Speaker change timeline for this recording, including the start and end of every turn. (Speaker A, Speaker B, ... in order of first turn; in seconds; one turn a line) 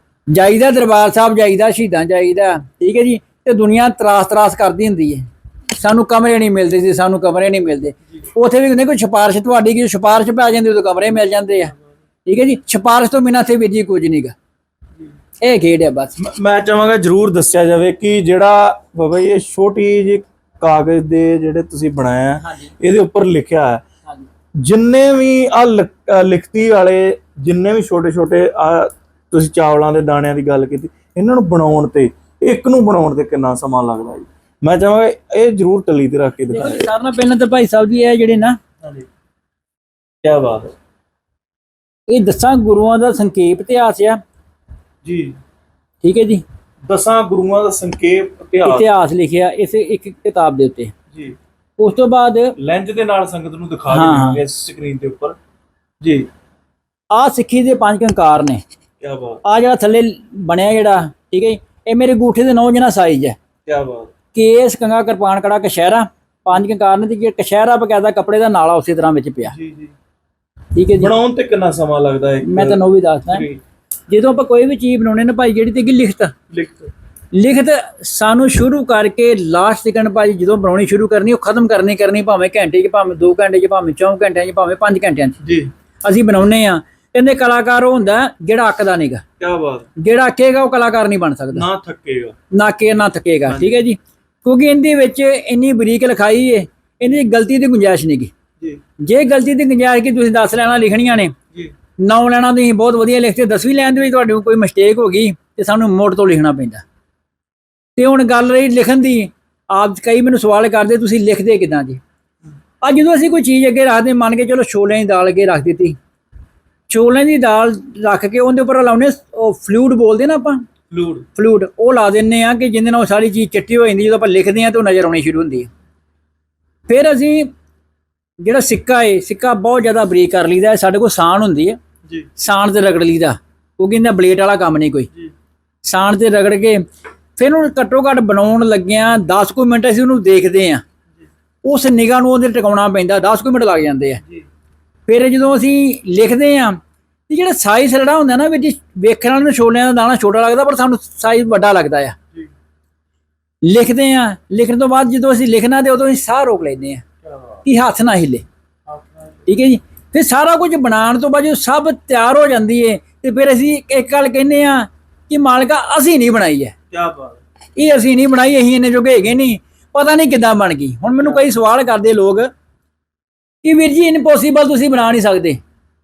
Speaker A: 0.3-11.7
Speaker A: 12.2-14.3
Speaker A: 15.4-16.1
Speaker B: 16.2-23.8
Speaker A: 22.4-22.7
Speaker B: 24.6-36.9
Speaker A: 36.5-38.6
Speaker B: 40.2-40.7
Speaker A: 42.1-44.2
Speaker B: 45.0-45.4
Speaker A: 46.0-46.4
Speaker B: 46.9-48.9
Speaker A: 48.6-50.9
Speaker A: 51.8-52.5
Speaker B: 52.6-55.4
Speaker A: 53.9-54.4
Speaker B: 56.0-56.3
Speaker A: 57.1-58.6
Speaker B: 59.0-59.4
Speaker A: 59.5-63.4
Speaker B: 63.7-64.1
Speaker A: 64.3-69.5
Speaker B: 69.5-69.9
Speaker A: 70.8-71.1
Speaker B: 71.0-73.6
Speaker A: 72.5-73.5
Speaker A: 74.1-76.3
Speaker B: 76.5-76.9
Speaker A: 77.3-85.4
Speaker B: 85.4-85.7
Speaker A: 86.0-89.2
Speaker B: 89.4-89.9
Speaker A: 90.0-91.7
Speaker B: 91.5-92.3
Speaker A: 92.5-98.3
Speaker B: 93.5-93.8
Speaker A: 99.0-101.3
Speaker A: 102.0-106.8
Speaker A: 108.0-112.0
Speaker A: 112.8-116.0
Speaker A: 116.9-120.7
Speaker B: 120.9-121.3
Speaker A: 121.3-125.7
Speaker A: 126.9-127.5
Speaker A: 128.4-131.8
Speaker A: 132.4-135.1
Speaker A: 135.8-136.8
Speaker A: 137.4-140.8
Speaker A: 141.7-144.2
Speaker A: 145.1-152.2
Speaker A: 153.6-157.0
Speaker B: 157.2-157.6
Speaker A: 157.7-158.4
Speaker B: 158.9-159.4
Speaker A: 159.5-166.8
Speaker B: 166.9-167.4
Speaker A: 167.8-172.5
Speaker A: 173.6-175.6